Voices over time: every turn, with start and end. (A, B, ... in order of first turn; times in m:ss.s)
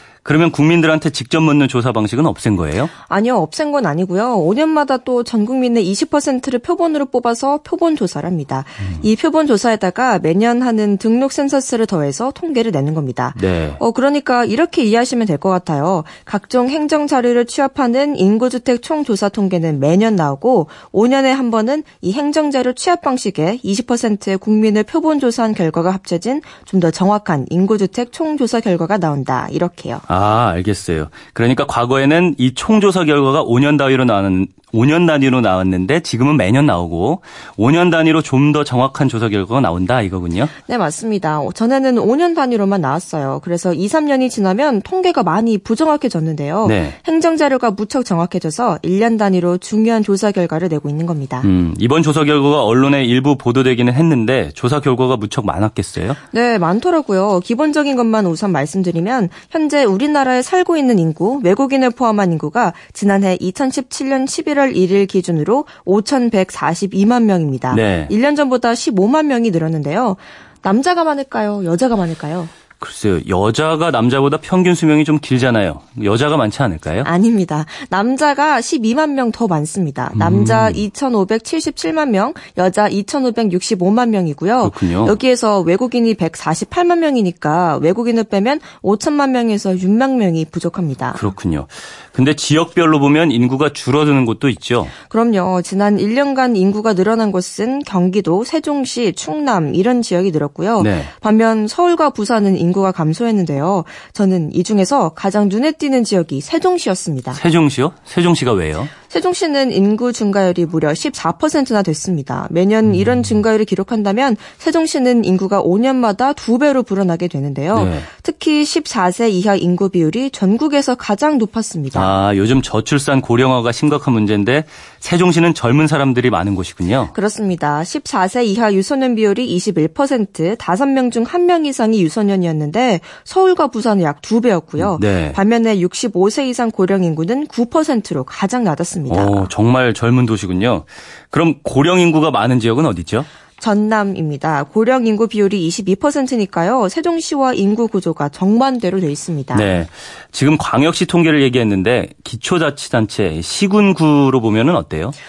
0:00.2-0:02.9 A
0:03.1-0:30.0 B
0:13.4-0:13.8 A
0:30.1-0:40.5 A
0:40.6-0:51.5 B
0:46.6-0:46.9 A
0:51.4-0:56.2 A
0:56.3-1:12.5 B
1:07.7-1:08.1 A
1:12.8-1:17.1 A
1:17.0-1:31.2 B
1:20.1-1:20.8 A
1:24.6-1:25.2 A
1:31.1-1:34.9 A
1:35.1-1:47.4 B
1:40.8-1:41.1 A
1:47.3-1:48.9 A
1:49.1-2:02.1 B
1:57.7-1:58.0 A
2:01.9-2:07.1 A
2:07.1-2:19.5 B
2:14.8-2:15.4 A
2:19.1-2:23.3 A
2:23.6-2:29.8 B
2:29.5-2:35.1 A